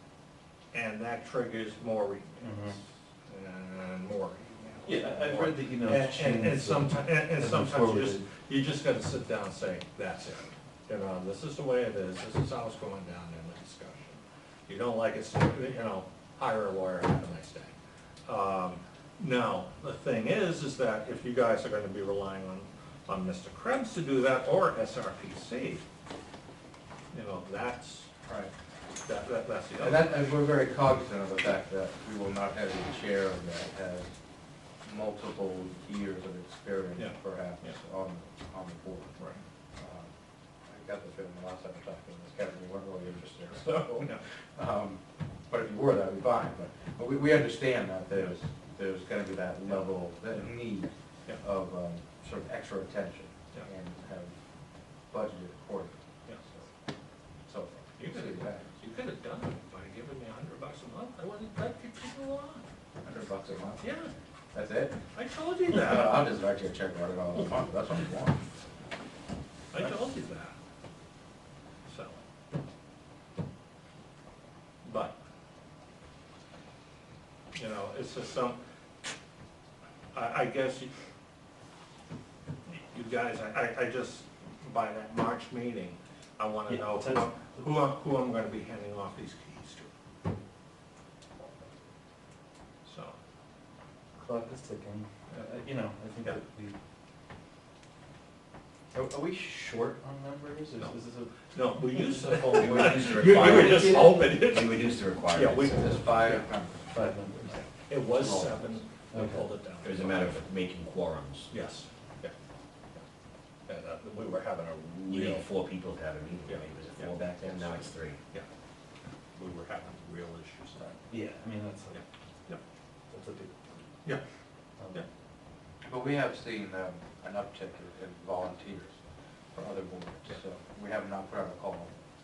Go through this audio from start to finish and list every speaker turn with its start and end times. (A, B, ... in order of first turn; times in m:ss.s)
0:00.7-0:17.7 A
0:02.4-0:02.8 B
0:04.8-0:08.2 B
0:18.3-0:25.8 A
0:27.1-0:28.1 A
0:28.2-0:28.5 C
0:29.1-0:30.3 A
0:29.8-0:34.1 C
0:34.8-0:39.2 C
0:37.0-0:37.8 A
0:39.8-0:40.1 C
0:40.7-0:54.3 C
0:43.5-0:44.2 A
0:55.1-0:56.7 C
0:57.5-0:58.7 C
0:58.0-1:02.6 A
1:03.0-1:03.9 C
1:03.8-1:04.1 A
1:04.5-1:05.0 C
1:05.1-1:06.3 A
1:05.7-1:08.4 C
1:09.7-1:10.6 A
1:11.9-1:12.2 A
1:14.8-1:15.2 A
1:17.6-1:18.6 A
1:20.1-1:20.9 A
1:22.7-1:29.9 A
1:26.7-1:27.6 B
1:32.8-1:33.2 A
1:34.2-1:36.8 B
1:38.9-1:42.9 B
1:41.5-1:46.5 A
1:42.4-1:46.3 D
1:42.5-1:44.1 C
1:45.7-1:46.8 C
1:46.9-1:47.6 B
1:47.5-1:50.4 A
1:48.2-1:48.6 C
1:49.1-1:49.5 B
1:49.8-1:51.5 D
1:51.5-1:52.3 A
1:53.7-1:55.5 A
1:55.1-1:58.2 D
1:56.4-1:58.5 A
1:59.4-2:01.0 A
2:01.1-2:02.0 B
2:01.9-2:02.6 A
2:03.1-2:03.6 B
2:04.8-2:05.0 B
2:05.9-2:09.0 C
2:09.5-2:11.9 C